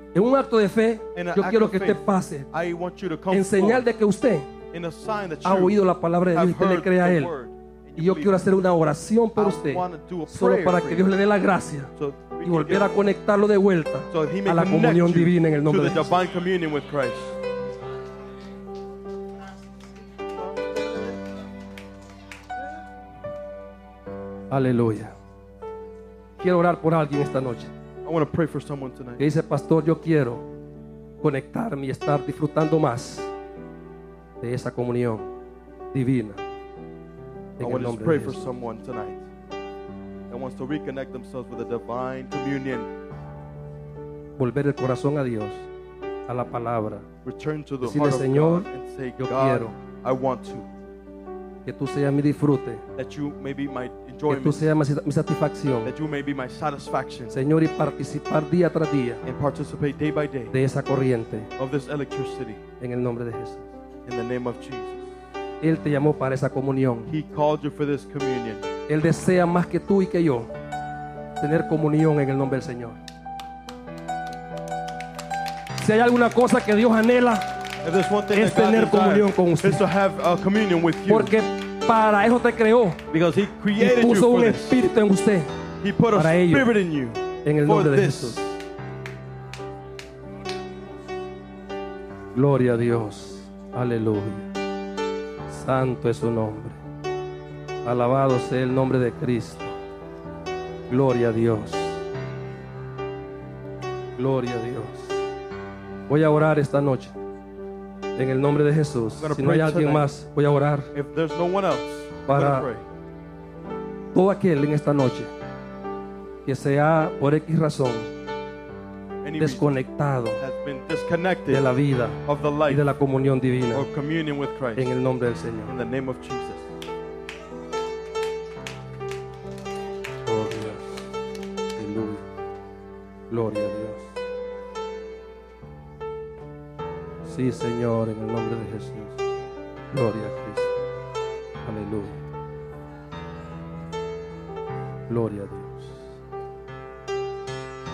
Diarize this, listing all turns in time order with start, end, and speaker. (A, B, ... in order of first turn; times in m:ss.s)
0:00.1-0:02.5 A
0:01.1-0:03.8 B
0:03.3-0:04.5 A
0:04.7-0:08.5 B
0:05.4-0:07.3 A
0:08.0-0:11.9 A
0:09.4-0:11.1 B
0:12.0-0:12.9 B
0:12.4-0:16.1 A
0:14.1-0:17.4 B
0:24.5-0:25.1 A
0:26.4-0:27.7 A
0:28.0-0:29.2 B
0:29.2-0:30.4 A
0:31.2-0:33.3 A
0:34.4-0:35.3 A
0:35.9-0:36.4 A
0:37.6-0:38.6 A
0:37.6-0:39.2 B
0:40.3-0:42.9 B
0:44.4-0:45.7 A
0:46.3-0:47.1 A
0:47.2-0:50.7 B
0:47.8-0:48.7 A
0:49.2-0:49.7 A
0:51.6-0:52.8 A
0:53.0-0:54.7 B
0:54.3-0:55.9 A
0:55.8-0:57.3 B
0:57.3-0:59.2 A
0:59.2-1:00.5 B
1:00.5-1:01.5 A
1:01.6-1:02.6 B
1:02.8-1:03.7 A
1:04.0-1:05.0 B
1:05.6-1:07.1 A
1:07.1-1:08.7 B
1:08.9-1:10.5 A
1:11.4-1:13.0 A
1:15.8-1:17.4 A
1:17.8-1:21.3 B
1:18.3-1:19.8 A
1:21.1-1:23.0 A
1:23.1-1:24.8 B
1:23.8-1:25.5 A
1:25.8-1:28.6 B
1:26.1-1:26.7 A
1:27.4-1:28.4 A
1:32.3-1:34.5 A
1:35.5-1:36.8 A
1:37.8-1:39.7 A
1:40.9-1:42.0 A
1:44.2-1:45.2 A
1:46.1-1:47.1 A
1:48.2-1:50.9 A
1:49.2-1:50.1 B
1:50.9-1:52.8 B
1:52.2-1:52.6 A
1:54.1-1:55.3 A
1:56.4-1:58.1 A
1:59.2-1:59.8 B
1:59.4-2:00.4 A
2:00.4-2:01.6 B
2:01.5-2:03.8 A
2:02.2-2:02.8 B
2:03.7-2:04.9 B
2:04.8-2:05.7 A
2:05.6-2:06.6 B
2:10.3-2:10.9 A
2:11.8-2:12.2 A
2:13.3-2:14.0 A
2:17.2-2:19.2 A
2:19.9-2:20.7 A
2:21.6-2:22.2 A
2:25.1-2:26.0 A